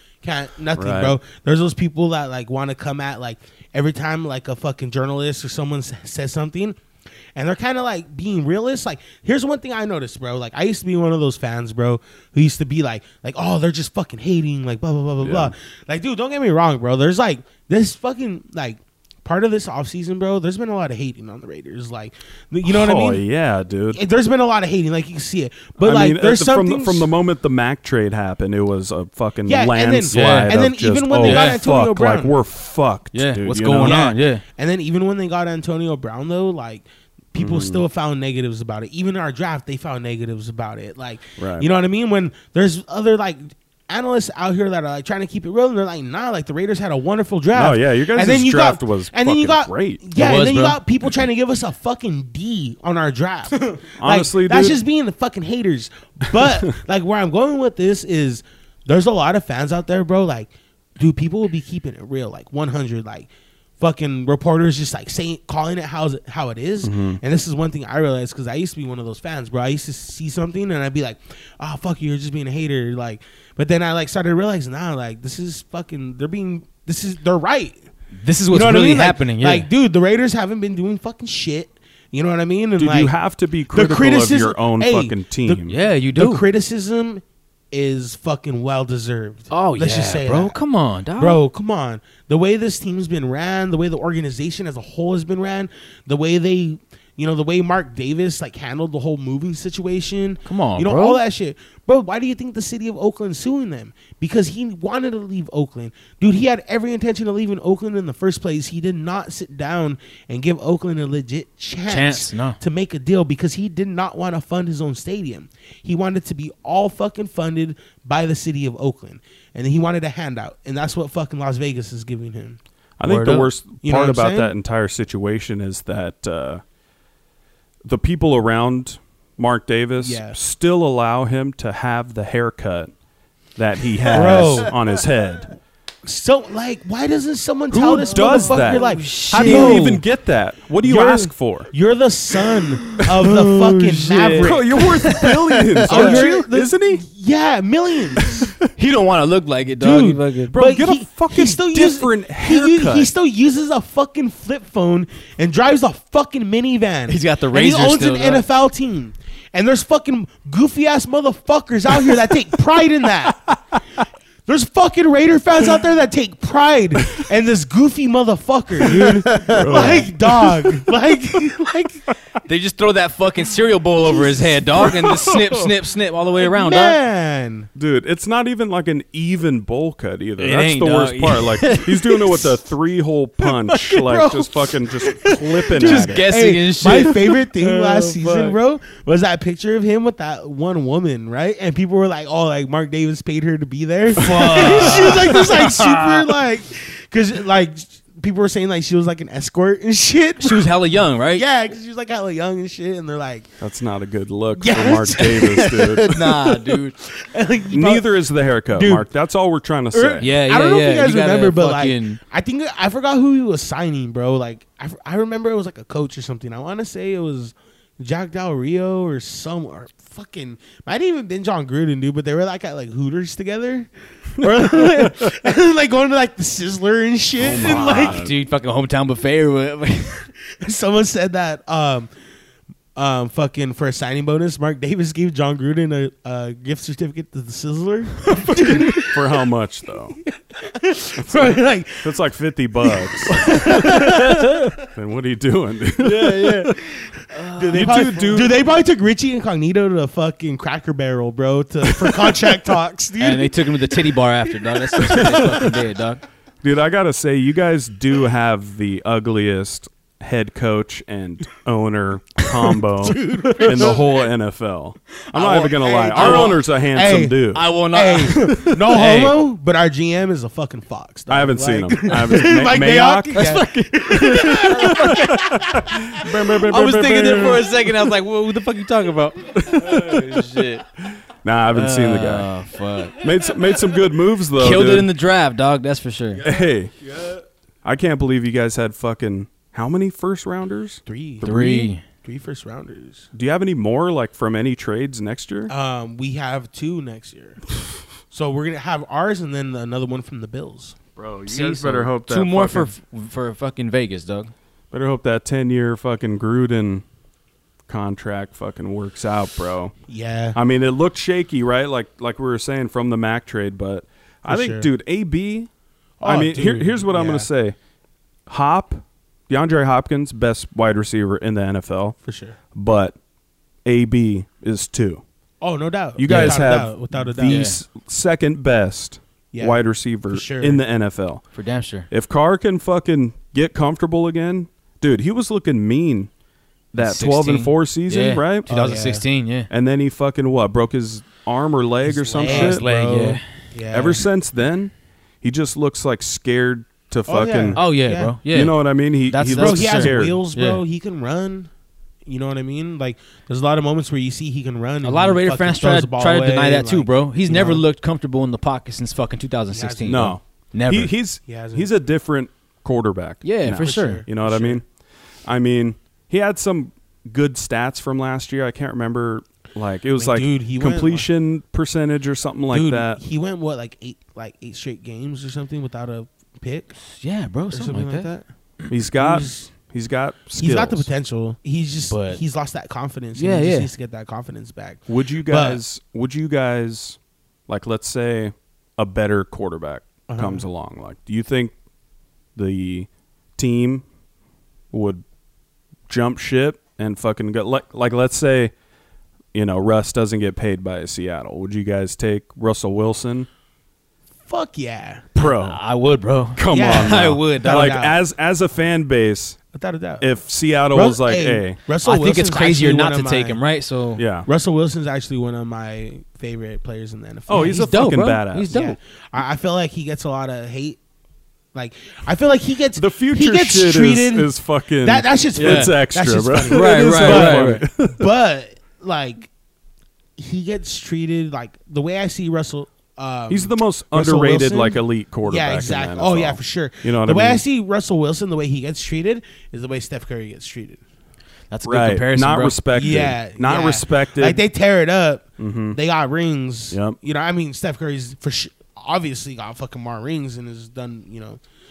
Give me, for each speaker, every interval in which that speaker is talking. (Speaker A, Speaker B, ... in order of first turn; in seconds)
Speaker A: 0.2-6.8, 7.4-23.2, 23.9-27.1, 29.5-32.4, 33.8-63.3, 63.8-77.8, 78.5-83.1, 83.7-90.6, 91.2-122.6, 123.2-124.5, 130.0-130.4, 134.1-134.8, 136.1-140.0, 140.8-148.5, 149.8-163.6, 164.5-172.1, 174.1-175.0, 176.4-177.7, 183.8-200.7, 201.3-203.5, 204.6-208.1, 208.7-209.1, 209.9-228.2, 230.6-232.1, 233.0-239.3, 240.3-242.1, 242.8-244.7, 247.1-255.8, 262.5-264.1, 265.3-276.3, 286.4-287.4, 291.1-293.3, 295.7-297.8, 298.3-301.0, 310.1-310.6, 314.5-314.9, 316.2-317.5, 322.2-322.6, 325.6-327.7, 329.5-330.8, 338.7-339.2, 342.3-344.2, 347.3-348.4, 349.5-351.7, 352.3-357.8, 359.7-360.4, 361.5-361.9, 363.7-364.8, 370.2-371.3, 372.7-376.9, 377.7-378.4, 379.1-379.7, 380.6-385.8, 390.3-390.7, 404.5-405.4, 406.7-408.2, 409.7-410.3, 410.9-413.6, 414.5-417.9, 418.7-421.0, 421.7-429.5, 430.4-441.0, 442.9-451.6
Speaker B: 0.8-1.2, 15.2-15.5, 22.7-24.0, 25.8-34.1, 37.4-37.8, 41.4-41.7, 47.5-50.0, 54.0-54.8, 56.4-56.6, 66.8-67.2, 82.8-85.7, 123.0-126.6, 127.8-132.9, 133.6-135.6, 137.7-141.7, 143.0-147.0, 148.2-148.5, 150.5-153.1, 169.5-170.8, 174.8-175.7, 177.8-186.3, 194.2-195.5, 203.6-206.2, 207.7-210.3, 224.4-225.3, 227.4-228.3, 239.0-240.2, 241.2-244.2, 244.8-246.8, 247.7-248.6, 252.0-252.5, 255.0-255.7, 256.6-267.6, 271.3-273.6, 274.3-277.7, 279.5-280.5, 281.3-282.5, 283.2-285.1, 286.4-286.9, 287.8-291.0, 293.3-295.7, 301.2-302.9, 304.9-307.0, 307.9-309.9, 310.6-315.7, 316.2-317.8, 318.5-322.2, 322.7-323.2, 323.9-325.2, 326.2-331.4, 332.1-336.3, 336.9-338.7, 339.7-342.9, 343.9-347.8, 348.5-350.4, 360.1-364.8, 365.4-373.2, 378.9-381.1, 385.1-391.7, 392.6-394.1, 394.9-395.2, 396.1-398.7, 399.5-403.5, 405.4-405.8, 406.6-409.6, 410.2-411.8, 414.2-414.5, 417.5-418.7, 422.9-428.3, 433.5-437.6, 441.8-444.6, 445.6-446.0, 446.9-447.2
Speaker C: 30.1-30.6, 31.2-31.6, 33.1-34.4, 50.1-50.8, 78.2-79.7, 85.7-86.4, 89.5-91.4, 100.5-101.2, 111.9-112.6, 123.1-123.5, 138.2-140.0, 145.8-146.3, 148.7-150.6, 157.1-158.5, 172.4-177.0, 180.4-182.5, 185.8-188.6, 194.2-196.1, 200.4-201.4, 206.1-207.0, 210.2-212.2, 227.4-230.3, 243.5-244.7, 246.0-246.8, 247.3-248.3, 253.2-256.2, 266.1-266.6, 267.5-269.4, 273.4-275.7, 276.6-280.8, 281.7-283.2, 284.6-286.4, 291.4-292.0, 301.5-304.5, 326.3-326.6, 327.4-327.8, 331.5-332.1, 337.0-339.7, 342.1-343.4, 347.8-348.8, 349.3-350.8, 355.0-361.1, 363.4-364.2, 377.0-378.3, 382.1-382.4, 383.4-383.9, 405.4-407.9, 412.0-414.2, 417.5-419.0, 425.6-425.9, 426.7-427.8, 441.7-442.8